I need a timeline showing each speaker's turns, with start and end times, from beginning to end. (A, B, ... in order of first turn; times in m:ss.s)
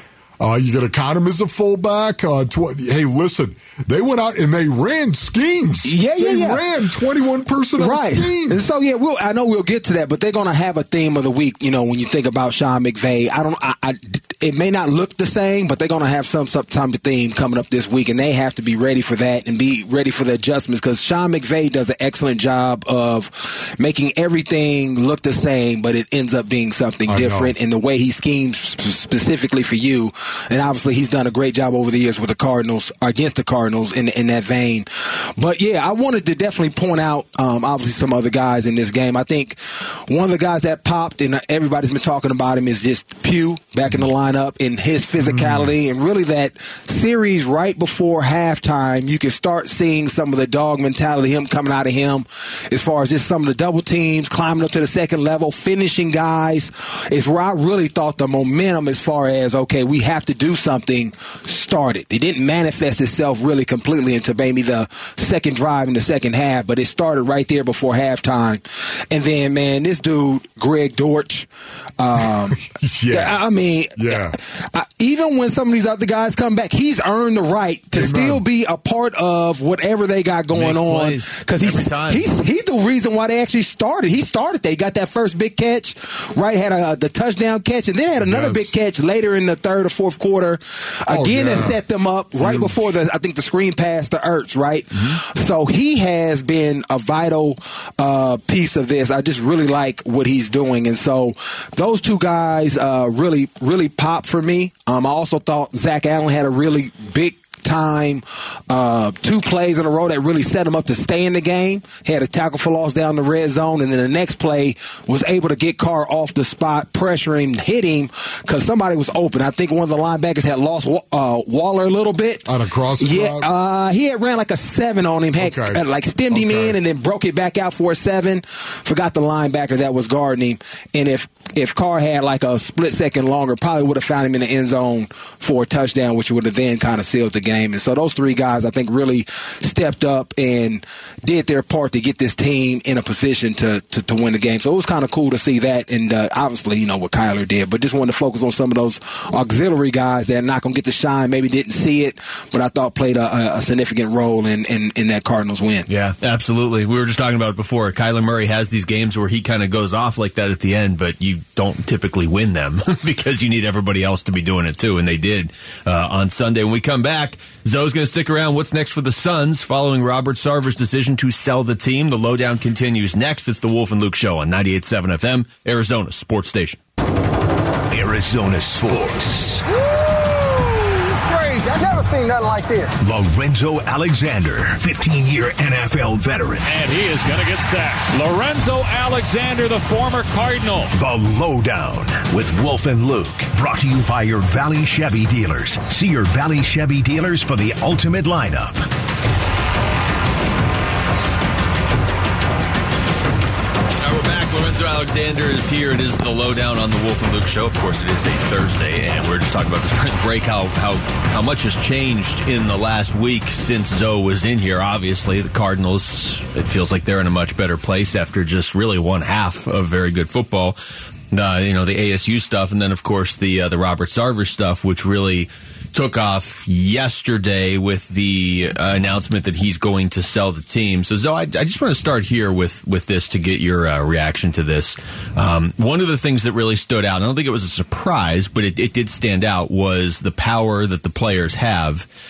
0:00.4-0:08.6 A
0:05.8-0:06.6 B
0:07.8-1:11.5 B
0:27.1-0:27.5 A
0:45.2-0:45.7 A
1:12.0-2:35.9 B
1:12.5-1:13.4 A
1:13.9-1:14.4 A
1:17.9-1:18.4 A
1:20.5-1:22.3 C
1:28.2-1:28.7 A
1:31.1-1:31.8 A
1:32.4-1:32.9 A
2:02.4-2:03.5 A
2:05.4-2:06.8 A
2:35.9-2:56.8 C
2:57.9-2:59.6 D
2:59.7-3:02.9 E
3:03.0-3:06.7 D
3:06.6-3:10.9 F
3:10.9-3:18.8 D
3:24.0-3:40.8 C
3:41.3-4:02.0 C